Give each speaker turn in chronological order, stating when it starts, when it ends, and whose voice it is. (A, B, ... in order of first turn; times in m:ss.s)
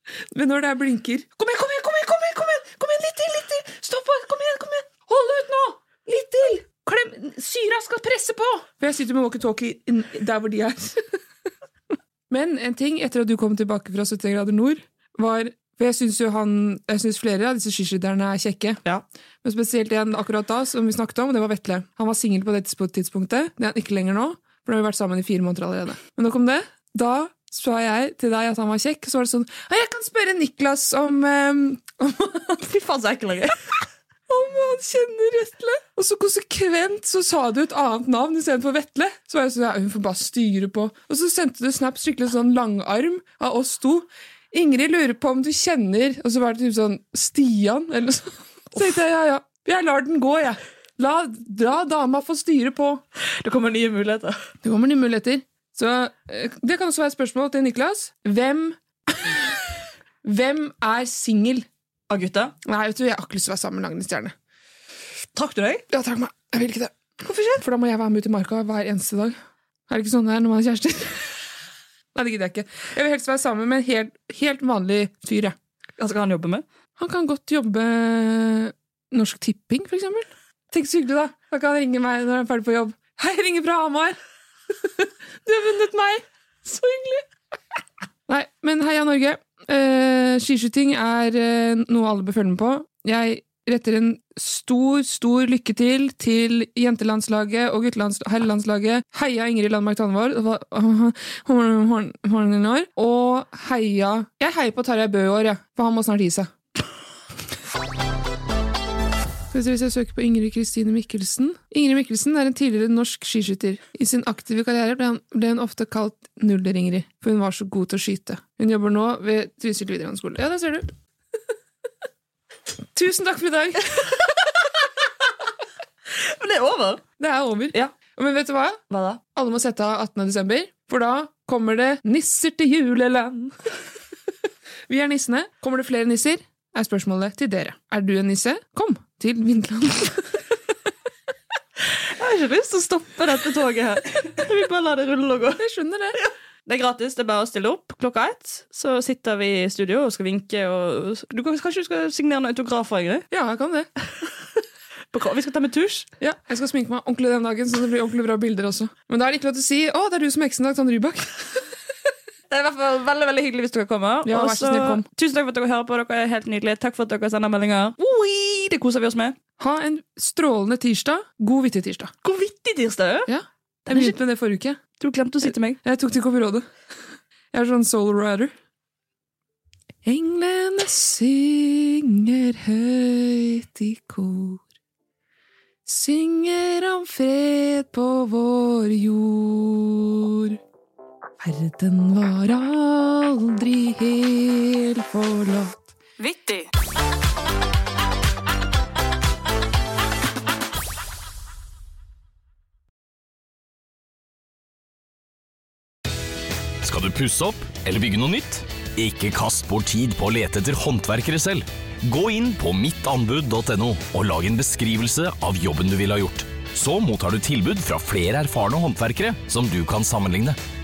0:00.3-0:11.1 A
0:12.3-0:18.8 A
0:19.4-0:32.6 A
0:32.6-0:33.6 B
0:34.3-0:53.0 A
0:53.2-0:54.4 B
0:54.6-0:59.7 A
1:00.2-1:01.6 A
1:02.1-1:02.5 B
1:02.6-1:04.3 A
1:05.3-1:05.8 B
1:05.9-1:09.4 A
1:09.9-1:11.3 A
1:12.1-1:15.5 A
1:16.0-1:16.6 B
1:17.0-1:24.2 A
1:24.8-1:27.2 A
1:28.3-1:46.5 A
1:49.5-2:00.9 A
2:02.9-2:04.1 A
2:06.2-2:07.0 B
2:07.2-2:08.8 A
2:08.9-2:09.2 B
2:09.3-2:13.7 A
2:14.9-2:20.4 A
2:22.2-2:25.6 B
2:25.6-2:26.2 A
2:26.1-2:33.3 B
2:33.3-2:33.9 A
2:35.1-2:36.1 B
2:36.2-2:41.6 A
2:42.5-2:49.4 B
2:44.2-2:45.0 A
2:49.6-2:52.1 A
2:52.2-2:53.3 B
2:53.3-2:54.8 A
2:53.9-2:54.2 B
2:55.0-2:55.8 B
2:55.5-2:56.7 A
2:57.5-2:58.5 A
3:00.0-3:04.6 A
3:05.8-3:10.6 A
3:11.4-3:15.9 A
3:16.2-3:16.7 B
3:26.8-3:40.6 C